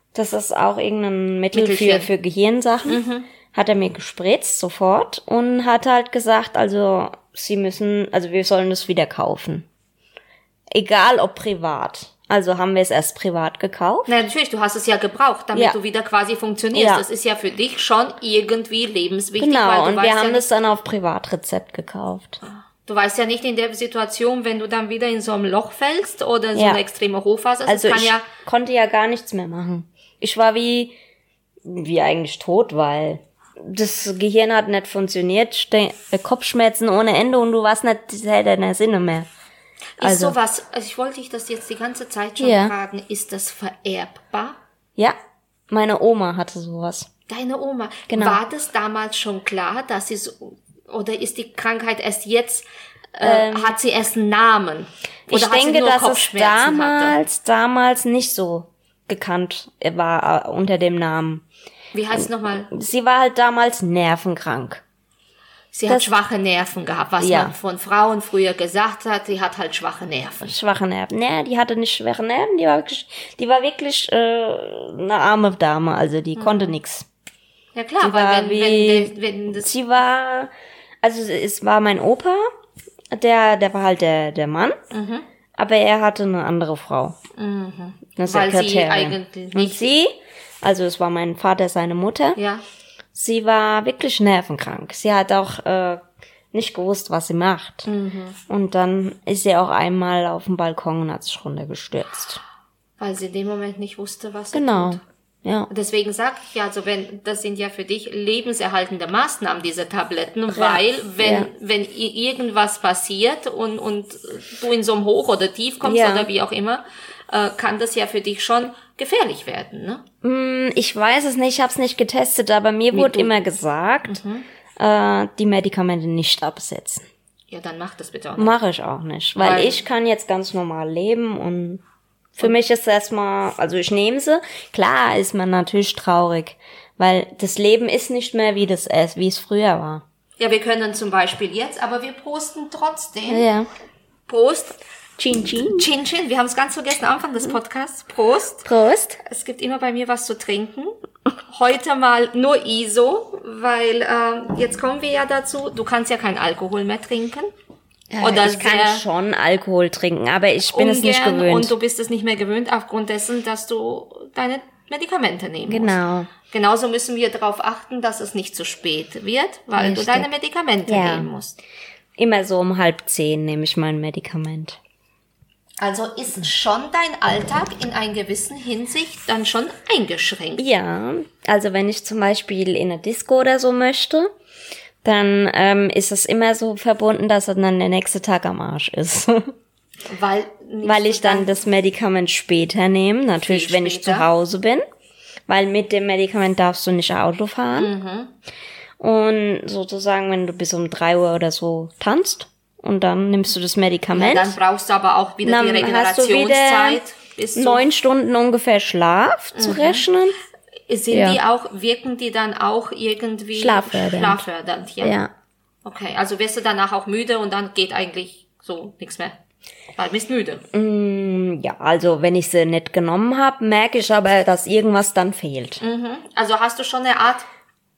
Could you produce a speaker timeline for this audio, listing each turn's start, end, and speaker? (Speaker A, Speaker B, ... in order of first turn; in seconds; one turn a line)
Speaker A: 0.1-9.7
Speaker B: 1.5-2.1
Speaker B: 2.9-3.3
Speaker A: 10.7-14.1
Speaker B: 14.1-20.4
Speaker A: 16.7-17.0
Speaker A: 19.4-22.4
Speaker B: 22.4-28.2
Speaker A: 26.5-26.8
Speaker A: 27.7-30.9
Speaker A: 31.6-39.3
Speaker B: 40.0-44.6
Speaker A: 40.0-40.4
Speaker A: 42.4-42.7
Speaker A: 45.7-47.1
Speaker B: 47.3-57.2
Speaker A: 48.1-48.4
Speaker A: 53.2-53.7
Speaker A: 55.3-61.4
Speaker B: 61.9-62.7
Speaker A: 62.1-64.8
Speaker B: 65.7-70.5
Speaker A: 67.2-67.5
Speaker A: 70.4-77.0
Speaker B: 76.3-76.7
Speaker B: 77.7-79.7
Speaker A: 78.0-80.5
Speaker A: 81.0-82.4
Speaker A: 83.1-84.8
Speaker B: 84.9-85.2
Speaker A: 85.6-87.2
Speaker B: 87.4-89.9
Speaker A: 88.2-92.4
Speaker B: 92.4-92.6
Speaker A: 93.1-96.0
Speaker A: 96.5-97.9
Speaker B: 97.8-98.4
Speaker A: 98.5-102.4
Speaker B: 103.0-105.0
Speaker A: 104.5-105.7
Speaker B: 105.7-120.0
Speaker A: 110.5-111.5
Speaker A: 115.8-116.3
Speaker A: 120.2-124.2
Speaker B: 122.9-123.3
Speaker B: 124.1-124.5
Speaker A: 124.8-127.0
Speaker B: 127.5-128.6
Speaker A: 128.4-131.8
Speaker B: 129.4-129.8
Speaker A: 132.3-140.0
Speaker B: 140.4-143.5
Speaker A: 143.3-143.7
Speaker B: 144.3-144.8
Speaker A: 145.2-145.9
Speaker B: 145.6-148.7
Speaker A: 148.6-149.2
Speaker B: 149.2-150.9
Speaker B: 151.5-157.5
Speaker A: 158.1-161.7
Speaker B: 158.2-159.0
Speaker B: 160.7-171.6
Speaker A: 165.7-166.3
Speaker A: 169.8-170.3
Speaker A: 170.9-171.3
Speaker A: 172.2-174.8
Speaker B: 175.8-180.7
Speaker A: 180.6-184.3
Speaker A: 185.0-189.5
Speaker B: 190.1-191.5
Speaker A: 190.8-194.8
Speaker B: 193.4-194.3
Speaker A: 195.5-197.9
Speaker B: 197.8-198.3
Speaker A: 199.0-204.6
Speaker B: 204.1-207.9
Speaker A: 205.4-207.0
Speaker A: 207.5-210.4
Speaker B: 209.5-210.1
Speaker B: 210.9-215.2
Speaker A: 211.1-211.4
Speaker A: 213.6-214.4
Speaker A: 215.0-215.3
Speaker B: 215.8-219.4
Speaker B: 219.9-220.6
Speaker A: 220.7-225.8
Speaker B: 225.8-227.5